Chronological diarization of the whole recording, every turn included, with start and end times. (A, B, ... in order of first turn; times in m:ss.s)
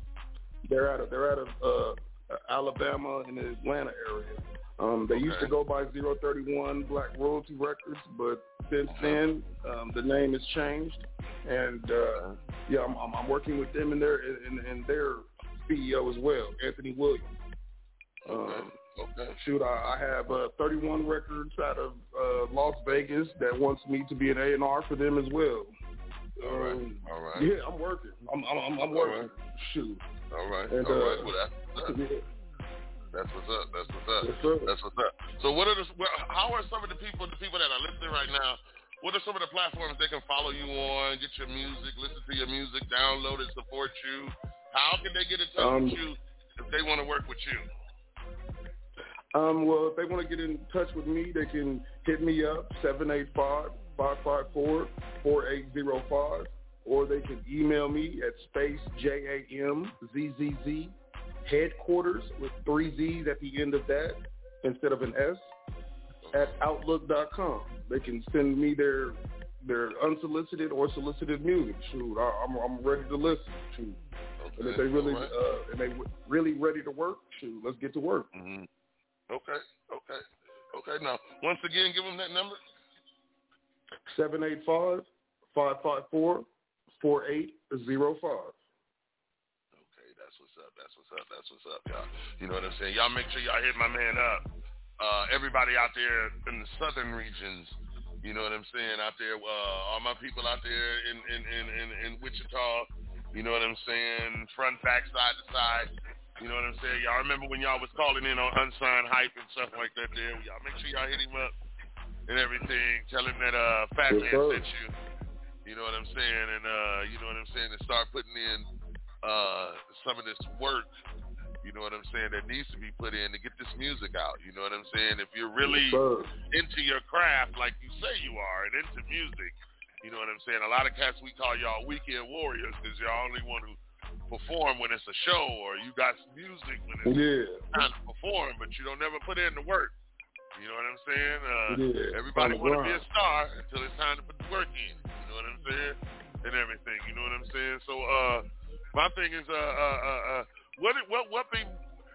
0:00.6-0:17.3 A
0:05.1-0:05.5 B
0:08.9-0:09.2 B
0:18.2-0:19.4 B
0:18.3-0:18.7 A
0:19.4-0:25.7 A
0:26.4-0:30.0 A
0:26.4-0:27.5 B
0:28.9-0:29.3 B
0:30.3-0:32.0 B
0:30.7-0:31.3 A
0:31.8-0:32.2 A
0:33.1-0:47.6 B
0:34.2-0:34.7 A
0:45.6-0:46.0 A
0:49.3-1:05.5 A
1:06.2-1:06.5 B
1:06.3-1:14.0 A
1:14.4-1:15.3 B
1:14.6-1:18.3 A
1:18.3-1:18.7 B
1:19.3-1:22.6 B
1:24.1-1:26.4 A
1:27.0-1:28.6 A
1:29.8-1:34.4 B
1:35.0-1:51.5 B
1:52.3-1:55.0 B
1:54.1-1:54.7 A
1:55.6-1:58.7 B
1:59.2-2:00.9 B
2:01.6-2:13.8 B
2:05.6-2:06.3 A
2:14.3-2:17.2 B
2:17.0-2:17.6 A
2:17.7-2:19.9 B
2:20.5-2:31.8 B
2:21.7-2:23.0 A